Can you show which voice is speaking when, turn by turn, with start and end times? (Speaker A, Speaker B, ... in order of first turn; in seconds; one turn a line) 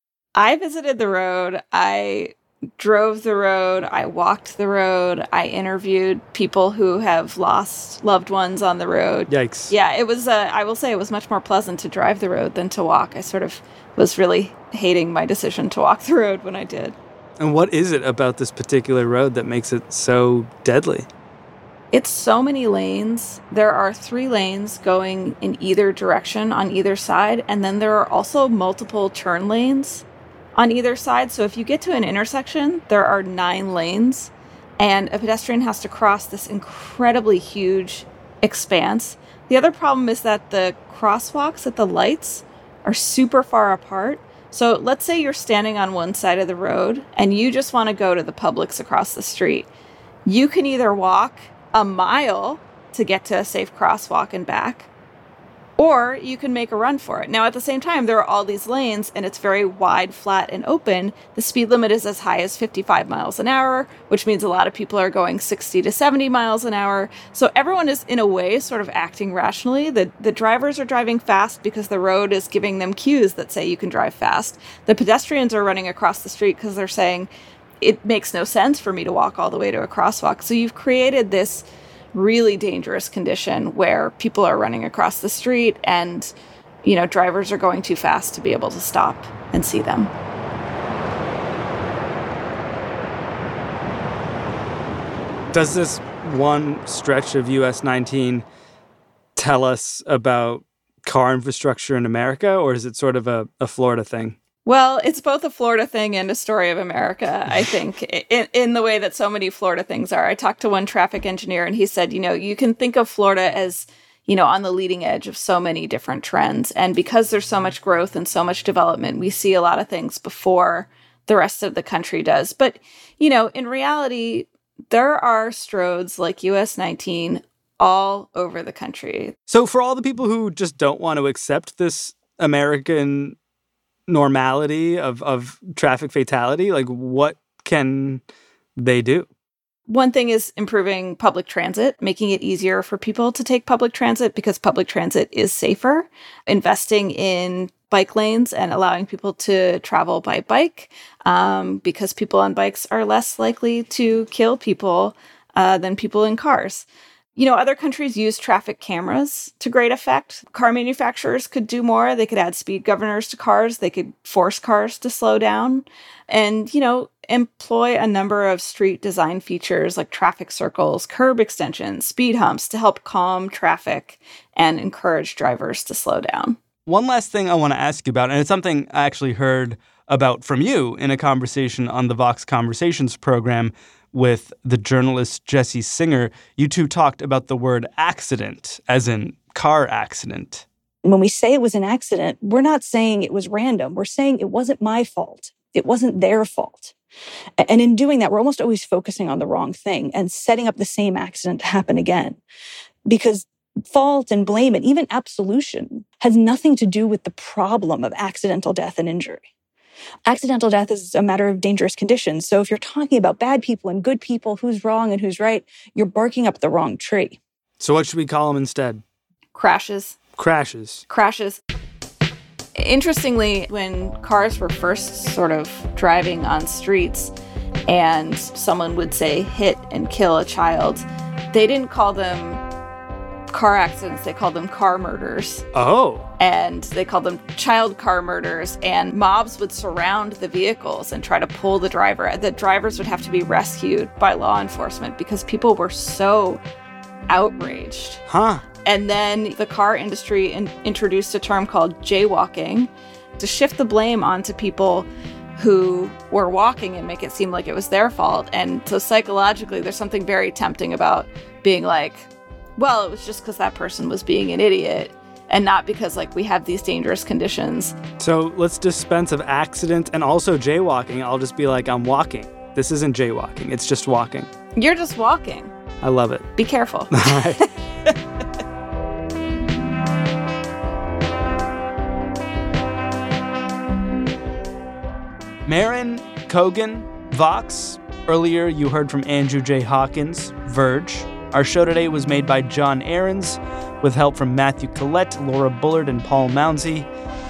Speaker A: 0.3-16.9
Speaker B: 9.3-9.7
Speaker B: 17.4-21.1
Speaker A: 21.9-30.0
Speaker A: 30.6-49.7
Speaker A: 50.2-54.9
Speaker A: 55.8-86.3
Speaker A: 86.8-90.1
Speaker B: 95.5-98.4
Speaker B: 99.3-104.3
Speaker A: 104.6-129.3
Speaker B: 129.5-133.4
Speaker B: 134.1-138.2
Speaker B: 138.8-139.3
Speaker A: 139.9-176.6
Speaker B: 176.9-190.6
Speaker C: 191.0-196.9
Speaker C: 197.6-202.4
Speaker C: 203.1-209.4
Speaker C: 210.2-217.4
Speaker B: 217.8-219.0
Speaker A: 219.5-220.2
Speaker B: 220.4-221.0
Speaker A: 221.1-221.6
Speaker A: 222.8-227.3
Speaker A: 227.9-232.6
Speaker A: 233.5-235.6
Speaker B: 235.7-236.3
Speaker A: 236.4-246.6
Speaker A: 247.3-248.2
Speaker B: 248.3-248.6
Speaker A: 248.8-267.9
Speaker B: 268.2-274.5
Speaker A: 274.8-275.7
Speaker B: 276.0-276.5
Speaker A: 276.6-277.7
Speaker B: 277.1-277.6
Speaker B: 285.6-297.1